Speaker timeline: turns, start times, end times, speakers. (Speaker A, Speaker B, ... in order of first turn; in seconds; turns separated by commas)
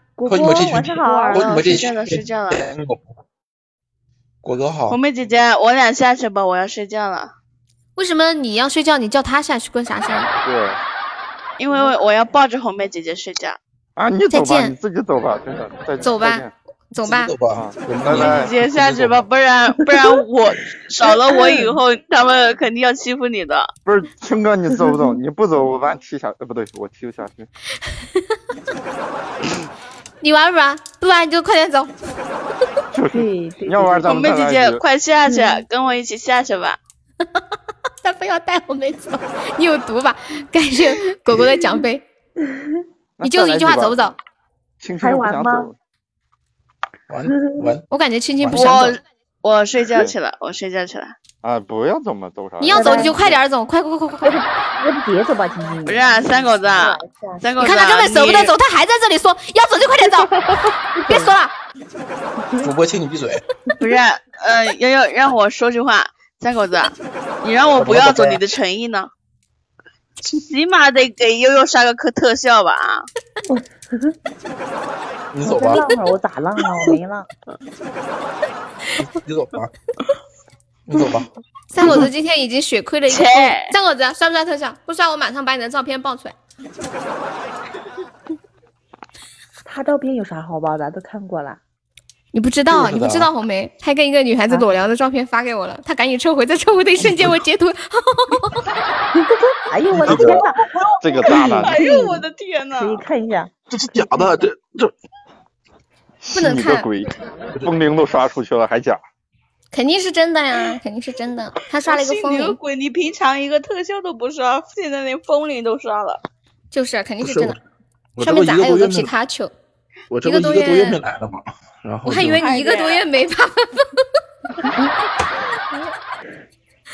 Speaker A: 0.2-2.0, Speaker B: 0.2-3.1, Speaker C: 0.6-2.6, Speaker B: 4.4-5.0, Speaker C: 4.9-7.3, Speaker D: 8.0-10.3, Speaker E: 10.4-10.8, Speaker C: 11.6-13.6, Speaker E: 14.0-16.5, Speaker D: 14.3-14.7, Speaker D: 16.0-17.3, Speaker B: 17.0-19.2, Speaker E: 17.5-18.5, Speaker C: 18.1-23.7, Speaker A: 21.4-21.6, Speaker E: 23.9-27.5, Speaker D: 30.2-31.9, Speaker E: 32.9-34.8, Speaker A: 33.1-34.1, Speaker C: 34.0-36.8, Speaker A: 35.3-35.6, Speaker D: 38.0-42.0, Speaker E: 43.2-44.0, Speaker D: 43.2-44.1, Speaker E: 44.8-45.7, Speaker A: 45.0-45.7, Speaker B: 47.1-47.8, Speaker A: 47.3-47.7, Speaker D: 47.9-49.0, Speaker B: 48.4-48.8, Speaker C: 48.5-51.1, Speaker E: 51.4-53.3, Speaker D: 52.6-54.4, Speaker A: 52.7-53.2, Speaker A: 54.2-57.4, Speaker C: 55.9-58.5, Speaker D: 57.6-60.4, Speaker A: 61.0-61.3, Speaker D: 61.0-61.5, Speaker B: 62.6-63.4, Speaker C: 63.8-69.1, Speaker B: 67.7-68.4, Speaker C: 70.2-73.1, Speaker A: 73.5-74.1, Speaker B: 75.3-75.8, Speaker A: 75.4-77.3, Speaker B: 79.0-79.7, Speaker B: 80.9-81.3, Speaker D: 81.7-86.3, Speaker C: 83.1-83.7, Speaker A: 89.6-91.6, Speaker D: 92.3-98.6, Speaker B: 92.7-93.3, Speaker B: 97.0-97.3, Speaker A: 99.2-100.6, Speaker B: 99.9-100.4, Speaker C: 100.1-103.0, Speaker E: 101.0-101.8, Speaker A: 101.3-102.2, Speaker A: 102.8-103.5, Speaker B: 103.7-104.9, Speaker E: 106.2-109.0, Speaker D: 106.3-106.9, Speaker D: 109.7-112.6, Speaker C: 111.8-116.2, Speaker D: 116.7-117.6, Speaker B: 117.2-117.6, Speaker B: 118.2-119.1, Speaker D: 118.2-119.5, Speaker B: 120.1-122.4, Speaker D: 120.2-121.0, Speaker D: 122.0-124.0, Speaker C: 122.4-123.0